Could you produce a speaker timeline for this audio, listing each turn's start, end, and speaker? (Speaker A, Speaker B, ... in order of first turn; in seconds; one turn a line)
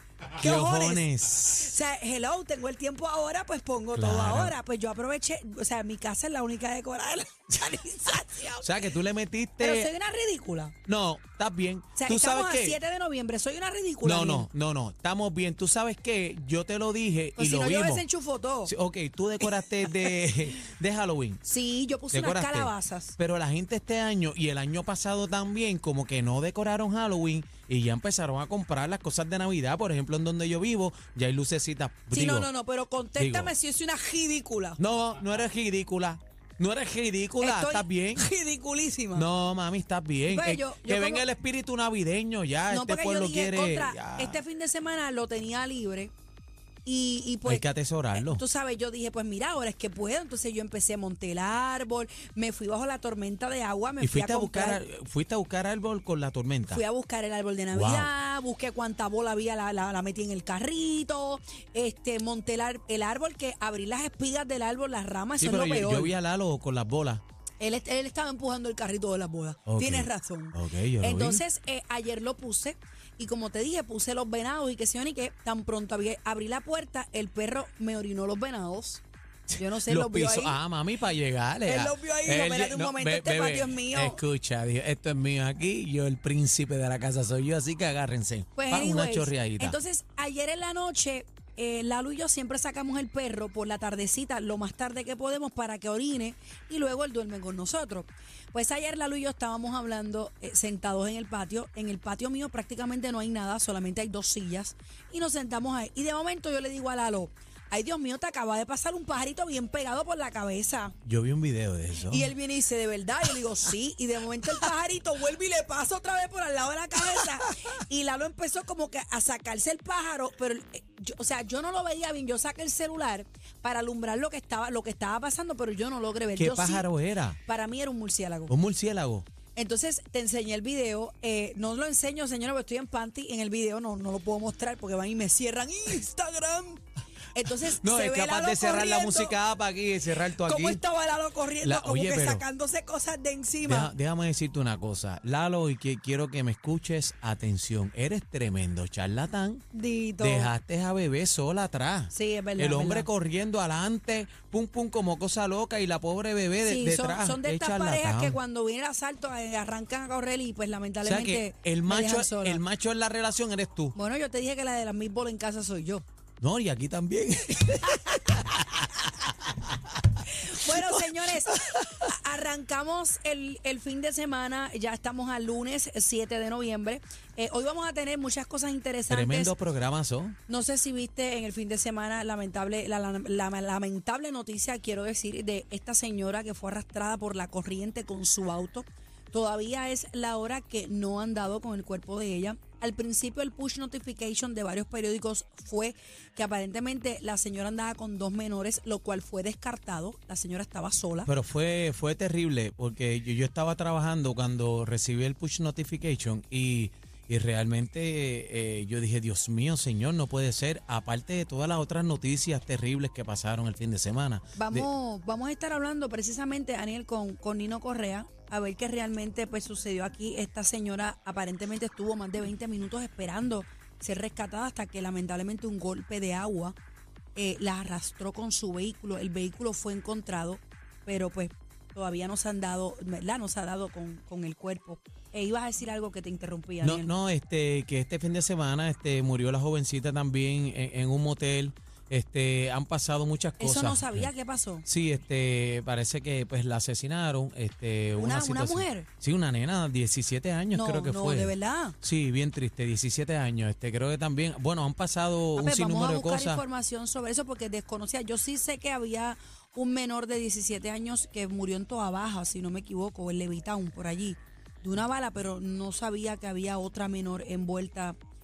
Speaker A: 0.4-1.6
Speaker B: 0.4-8.9
Speaker A: 3.9-4.6
Speaker A: 8.6-9.9
Speaker B: 9.6-10.8
Speaker A: 10.9-12.8
Speaker B: 11.9-14.5
Speaker A: 14.0-18.1
Speaker B: 17.4-18.7
Speaker A: 18.6-21.4
Speaker B: 19.6-20.2
Speaker B: 21.4-23.2
Speaker A: 22.1-32.5
Speaker B: 32.1-34.8
Speaker A: 33.2-33.5
Speaker A: 34.8-38.3
Speaker B: 37.4-39.3
Speaker A: 39.1-44.4
Speaker B: 40.3-41.3
Speaker B: 42.7-46.1
Speaker B: 46.9-54.8
Speaker A: 47.5-48.4
Speaker A: 54.0-56.8
Speaker B: 56.7-66.1
Speaker A: 57.7-58.1
Speaker A: 65.4-67.2
Speaker B: 67.6-79.0
Speaker A: 69.7-71.4
Speaker A: 79.5-89.8
Speaker B: 79.6-80.6
Speaker B: 81.7-84.2
Speaker B: 88.5-111.0
Speaker A: 111.0-112.3
Speaker B: 112.0-126.9
Speaker A: 126.4-127.4
Speaker B: 127.4-128.6
Speaker A: 128.5-129.3
Speaker B: 129.6-136.8
Speaker B: 137.3-139.4
Speaker A: 137.6-140.8
Speaker B: 140.4-143.9
Speaker A: 141.6-142.4
Speaker A: 143.6-149.6
Speaker B: 149.7-150.5
Speaker A: 150.2-158.4
Speaker B: 152.1-153.1
Speaker B: 156.6-162.6
Speaker A: 161.0-164.0
Speaker B: 163.9-166.1
Speaker A: 166.4-170.0
Speaker B: 168.0-168.4
Speaker B: 170.3-179.6
Speaker A: 170.7-171.9
Speaker A: 179.1-180.4
Speaker B: 180.5-201.3
Speaker A: 201.3-214.9
Speaker B: 214.6-226.8
Speaker B: 227.3-237.1
Speaker A: 236.8-244.3
Speaker B: 243.6-244.9
Speaker A: 244.9-256.6
Speaker B: 248.2-249.1
Speaker B: 250.7-252.0
Speaker B: 255.6-268.2